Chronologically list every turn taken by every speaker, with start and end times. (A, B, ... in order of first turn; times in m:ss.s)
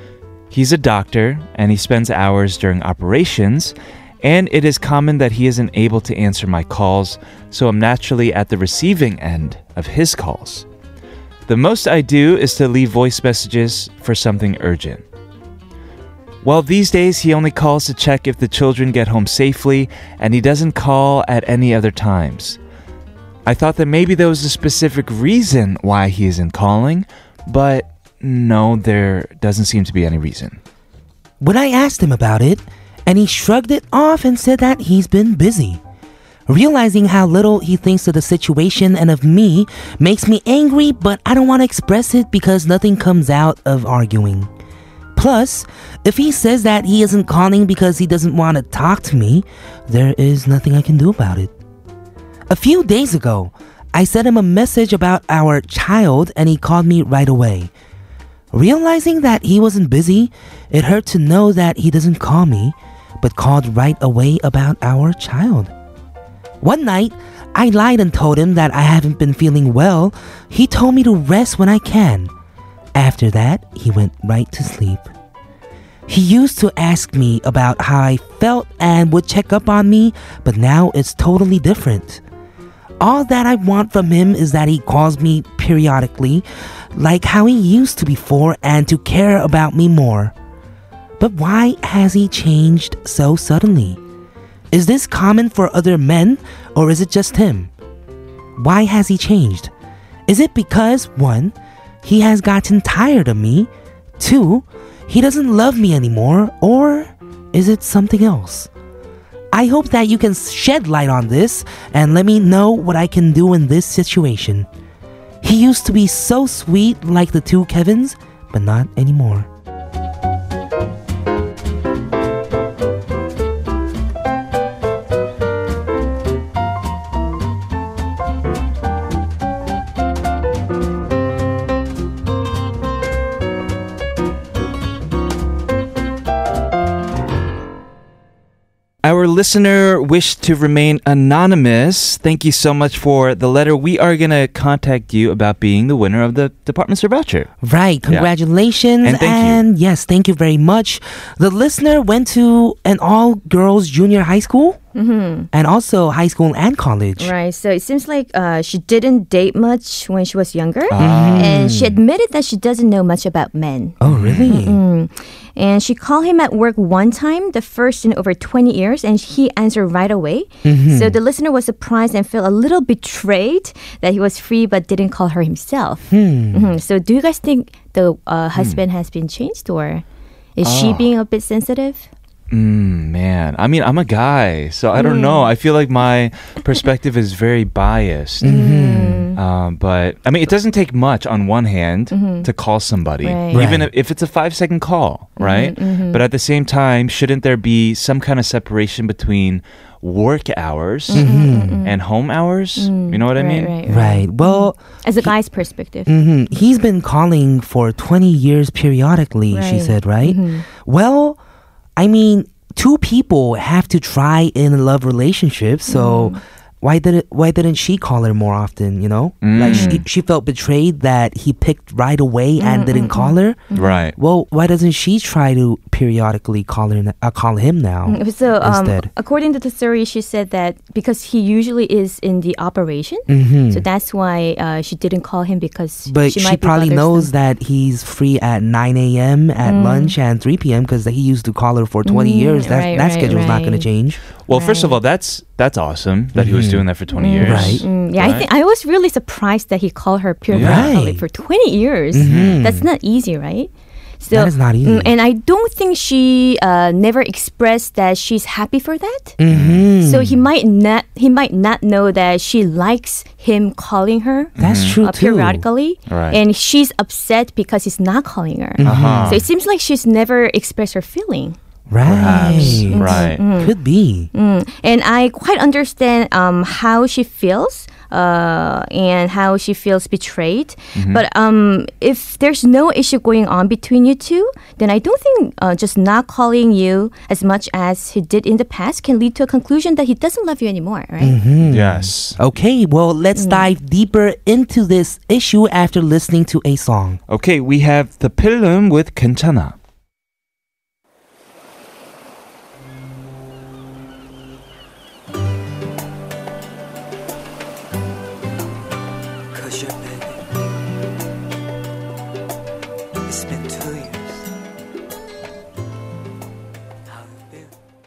0:00.5-0:10.6 A
0:11.5-0:15.0 A
0:16.4-0:22.6 A
0:23.4-0:30.6 A
0:31.4-0:35.8 B
0:36.5-0:44.5 B
0:45.1-0:51.5 B
0:52.5-0:57.7 B
0:58.5-1:05.7 B
1:06.6-1:12.3 B
1:12.9-1:15.1 B
1:16.1-1:22.2 B
1:23.0-1:30.3 B
1:31.2-1:34.0 B
1:34.7-1:37.7 B
1:38.6-1:39.7 B
1:40.3-1:48.7 B
1:49.5-1:54.7 B
1:55.4-1:59.5 B
2:19.0-2:27.5 A
2:27.6-2:34.8 B
2:29.0-2:29.6 A
2:34.9-2:35.5 C
2:35.5-2:37.3 B
2:37.2-3:00.0 C
2:40.9-2:41.6 A
2:41.0-2:42.0 B
2:44.0-2:44.8 B
2:44.0-2:44.6 A
2:50.6-2:51.2 B
2:56.1-2:56.7 B
2:58.6-2:58.8 A
3:00.6-3:02.1 C
3:00.6-3:01.1 A
3:02.5-3:08.5 A
3:05.0-3:05.5 C
3:08.4-3:09.3 B
3:08.4-3:09.4 C
3:09.4-3:21.3 A
3:12.1-3:12.5 C
3:13.2-3:13.6 C
3:13.5-3:13.9 B
3:15.4-3:16.2 C
3:21.1-3:22.0 C
3:21.1-3:21.8 B
3:21.8-3:23.7 A
3:22.8-3:26.1 C
3:23.8-3:25.3 B
3:26.1-3:31.4 B
3:29.5-3:30.6 C
3:32.0-3:49.1 B
3:35.9-3:36.4 C
3:39.4-3:40.0 A
3:39.7-3:40.0 C
3:42.6-3:44.0 C
3:43.7-3:44.1 A
3:48.1-3:57.3 C
3:53.3-3:53.8 B
3:56.1-4:04.2 B
3:59.6-4:00.1 C
4:02.0-4:03.9 C
4:04.4-4:08.5 A
4:04.5-4:05.0 C
4:06.3-4:06.8 B
4:07.2-4:19.4 C
4:07.4-4:07.8 B
4:10.5-4:10.9 A
4:10.5-4:11.2 B
4:12.1-4:12.9 B
4:12.2-4:12.6 A
4:14.3-4:15.1 B
4:19.4-4:20.4 B
4:19.5-4:19.8 A
4:20.0-4:31.6 C
4:24.6-4:25.0 A
4:24.6-4:25.6 B
4:26.1-4:26.4 A
4:28.8-4:29.4 B
4:28.8-4:29.4 A
4:31.9-4:34.3 B
4:32.0-4:33.4 A
4:32.2-4:33.7 C
4:34.3-4:51.4 C
4:41.0-4:41.2 A
4:51.2-4:57.2 B
4:51.6-4:52.4 A
4:53.3-4:53.7 C
4:57.3-4:59.8 A
5:09.5-5:10.4 D
5:13.2-5:14.4 D
5:17.1-5:17.7 D